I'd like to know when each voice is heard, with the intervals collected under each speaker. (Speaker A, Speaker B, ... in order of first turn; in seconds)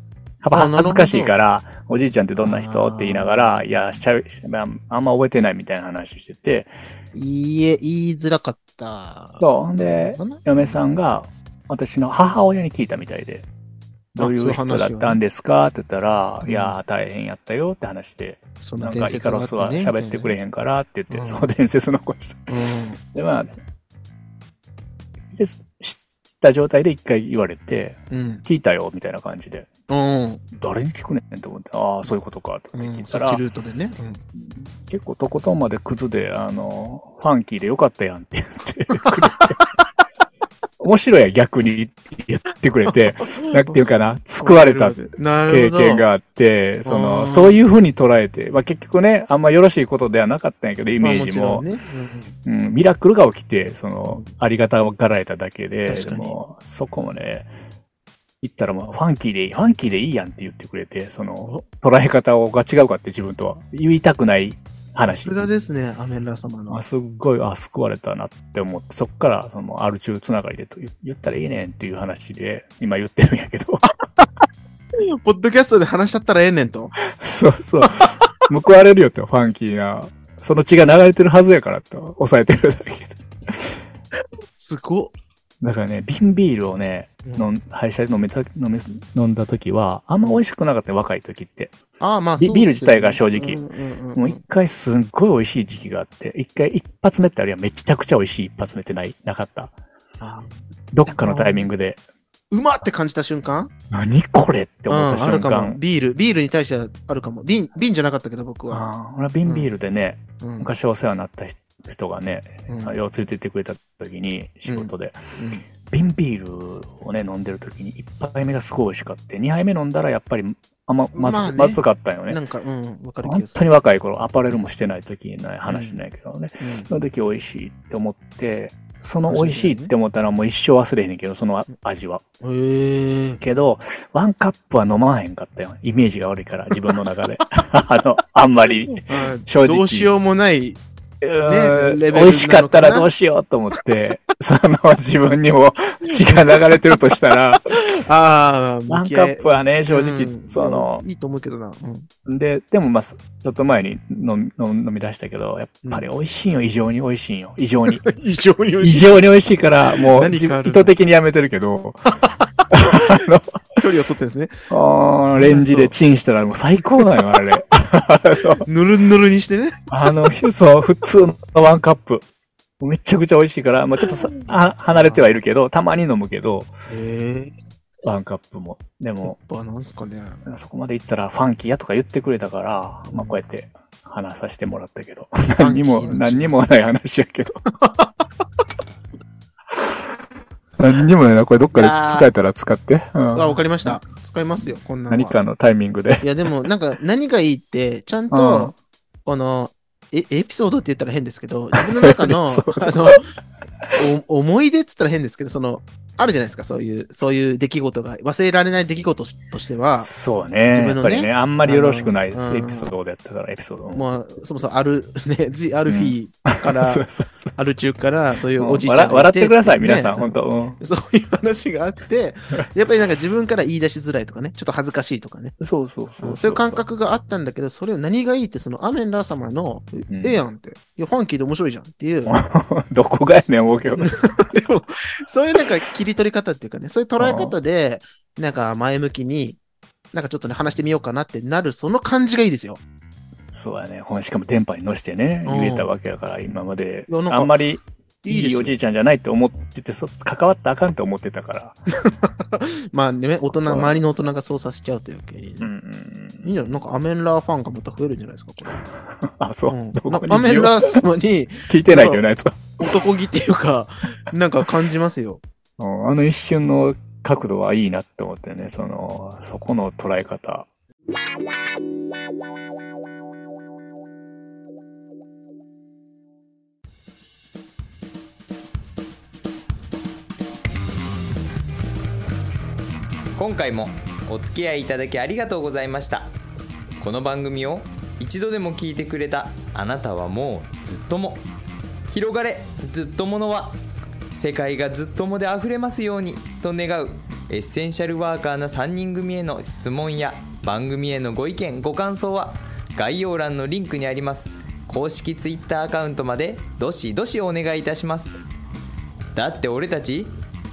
Speaker A: 0.4-6.7, 9.4-13.5, 14.2-22.5, 23.1-23.6, 25.3-29.7, 30.5-33.4, 34.4-39.6, 40.8-51.7, 52.5-57.5, 58.4-65.4, 66.7-73.8, 77.1-83.8, 85.6-91.8, 92.4-93.6, 94.2-99.7, 100.9-102.0, 103.9-105.8, 108.7-115.2, 115.8-122.4, 123.2-132.2, 133.4-140.1, 141.2-148.0, 148.9-151.0, 152.2-158.1, 158.8-162.0, 162.7-163.8, 164.7-168.7, 169.9-172.2, 172.8-176.7, 178.0-179.4, 180.4-187.6, 189.7-190.1, 190.8-194.0, 195.1-196.2, 198.3-198.7, 202.0-203.2, 210.0-214.0, 215.9-217.7, 218.6-220.8, 225.6-226.8, 230.1-230.4, 232.3-234.2, 237.2-237.6, 243.5-251.8, 253.5-254.0, 255.6-256.8, 259.2-261.0, 261.7-263.0, 265.8-270.7
Speaker B: 0.5-1.4, 2.4-3.6, 7.1-10.8, 14.2-15.2, 16.4-16.8, 18.6-20.4, 21.1-21.5, 22.5-23.0, 28.1-28.4, 29.9-30.4, 32.8-34.2, 39.0-39.7, 42.9-46.0, 46.9-47.6, 51.0-52.4, 55.9-56.4, 65.0-66.8, 75.0-76.9, 77.8-78.2, 84.5-85.1, 92.0-94.4, 100.2-101.7, 102.5-103.7, 104.9-108.9, 109.4-109.7, 110.4-110.7, 112.7-113.0, 114.7-115.7, 121.1-123.7, 125.7-126.0, 126.6-126.9, 129.3-129.9, 132.4-133.4, 139.0-140.8, 141.4-143.1, 146.2-147.0, 147.7-152.1, 157.9-159.2, 160.0-160.9, 163.8-164.5, 165.3-165.9, 168.7-169.8, 174.1-174.3, 174.9-175.2, 176.9-177.5, 179.2-180.4, 183.1-183.4, 185.6-186.5, 187.8-188.1, 191.7-192.3, 193.3-195.4, 196.2-198.7, 199.2-203.3, 204.0-210.1, 210.7-212.9, 213.9-217.0, 217.6-225.5, 226.2-232.3, 234.0-239.6, 240.1-242.8, 245.4-245.9, 247.1-247.5, 248.2-248.8, 252.0-255.7, 256.4-258.9, 259.7-262.2, 262.8-265.4
Speaker C: 283.4-286.3, 287.0-291.4, 292.1-293.8, 294.3-308.4, 309.3-310.4